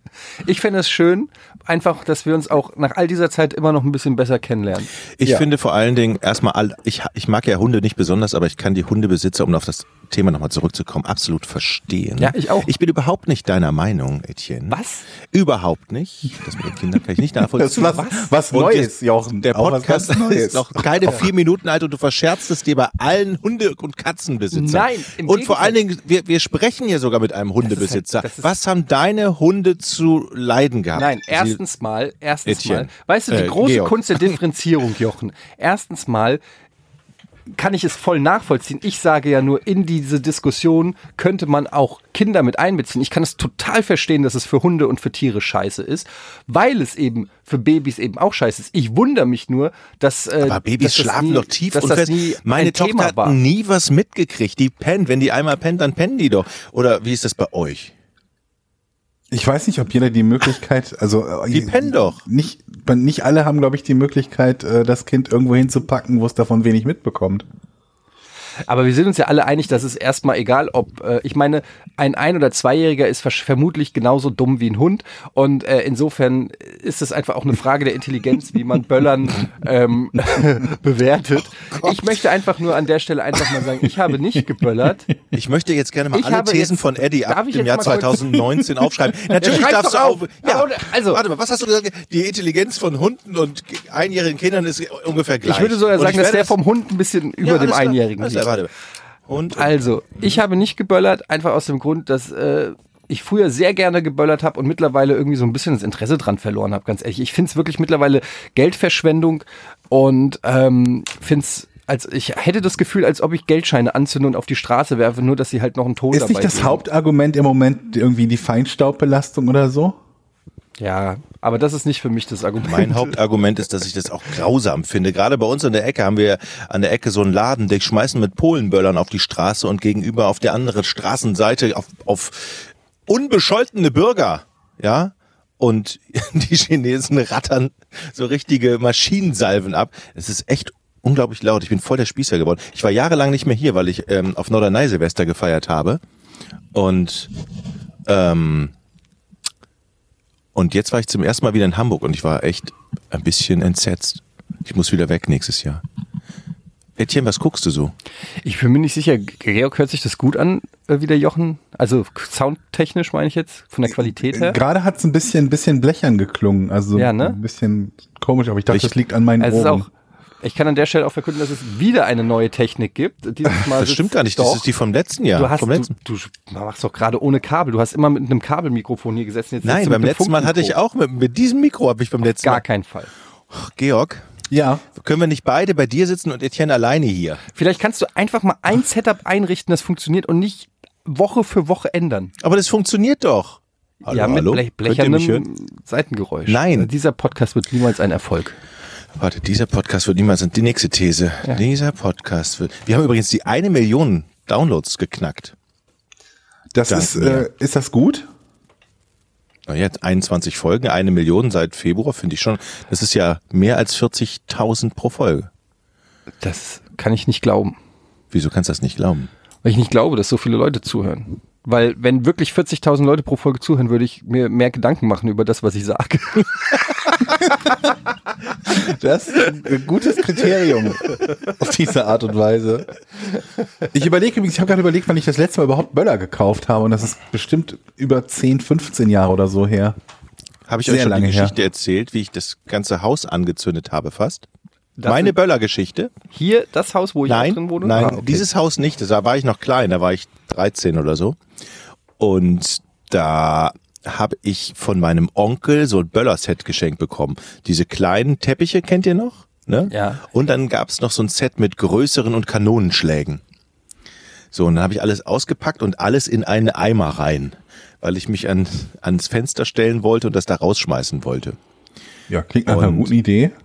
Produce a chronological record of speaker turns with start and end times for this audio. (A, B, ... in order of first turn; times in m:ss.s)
0:00.4-0:05.4 A
0:05.2-0:14.8 B
0:12.2-0:12.7 A
0:14.7-0:15.0 A
0:15.3-0:31.6 B
0:17.4-0:21.3 C
0:17.8-0:18.3 A
0:24.5-0:25.8 A
0:27.6-0:28.5 A
0:30.9-0:36.4 A
0:32.4-0:34.4 B
0:37.5-0:53.4 A
0:50.4-0:57.9 B
0:59.3-1:07.4 C
1:01.5-1:02.2 B
1:08.7-1:25.1 A
1:25.3-1:36.6 B
1:26.1-1:28.4 A
1:29.3-1:31.2 A
1:35.4-1:38.6 A
1:37.4-1:38.7 B
1:39.3-1:39.8 B
1:39.5-1:56.8 A
1:56.1-2:00.0 C
2:00.8-2:03.1 A
2:02.6-2:26.0 B
2:26.7-2:27.3 B
2:28.0-2:28.7 B
2:30.5-2:35.8 B
2:37.0-2:37.9 B
2:38.4-2:44.6 A
2:44.0-2:49.9 C
2:47.0-2:47.4 A
2:49.4-2:49.9 A
2:50.4-2:54.6 A
2:53.6-2:55.9 B
2:55.3-3:00.7 A
2:59.6-3:02.6 B
3:02.4-3:03.1 A
3:03.5-3:04.3 B
3:04.5-3:04.8 C
3:04.9-3:07.4 B
3:07.5-3:12.3 A
3:12.4-3:15.4 B
3:14.1-3:18.6 A
3:16.5-3:16.9 B
3:19.1-3:25.5 B
3:26.7-3:28.3 C
3:26.9-3:27.5 B
3:29.7-3:35.5 B
3:36.4-3:37.8 A
3:38.3-3:39.3 B
3:39.6-3:46.9 A
3:48.7-3:52.9 C
3:53.9-4:00.0 C
4:00.7-4:04.5 B
4:00.8-4:01.5 C
4:05.0-4:05.4 A
4:05.0-4:06.1 B
4:06.3-4:08.4 A
4:07.3-4:11.4 B
4:12.2-4:23.4 B
4:19.9-4:20.2 A
4:24.5-4:31.6 B
4:32.3-4:33.5 C
4:32.7-4:33.1 B